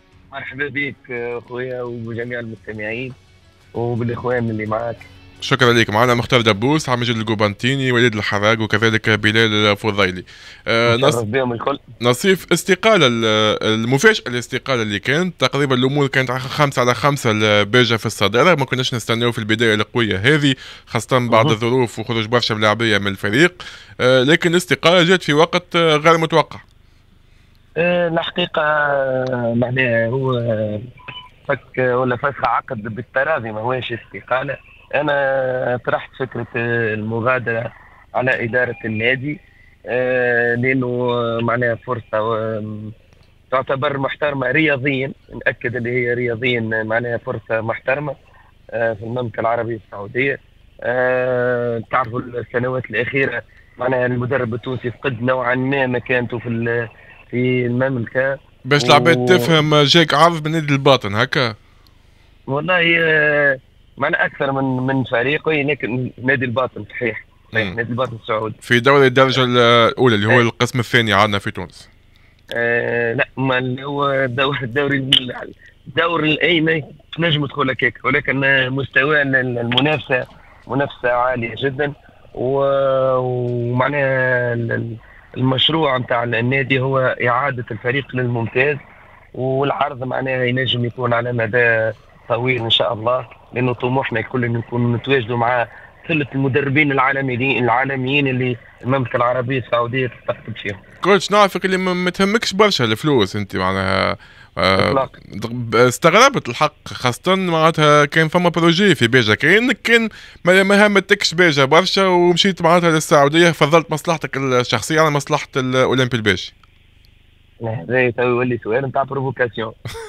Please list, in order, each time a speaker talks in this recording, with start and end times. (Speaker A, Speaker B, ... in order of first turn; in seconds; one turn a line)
Speaker A: 0.3-3.1
Speaker A: 3.8-5.0
Speaker B: 5.4-11.2
Speaker A: 10.9-11.8
Speaker B: 12.0-26.6
Speaker A: 21.3-21.5
Speaker A: 27.8-30.8
Speaker A: 31.5-39.4
Speaker A: 39.9-42.9
Speaker A: 43.5-48.1
Speaker A: 48.7-56.7
Speaker A: 57.3-59.3
Speaker B: 58.7-61.5
Speaker A: 62.5-68.5
Speaker B: 68.6-71.9
Speaker A: 72.5-88.8
Speaker A: 89.3-100.8
Speaker B: 101.0-116.5
Speaker A: 104.8-105.1
Speaker A: 117.6-119.7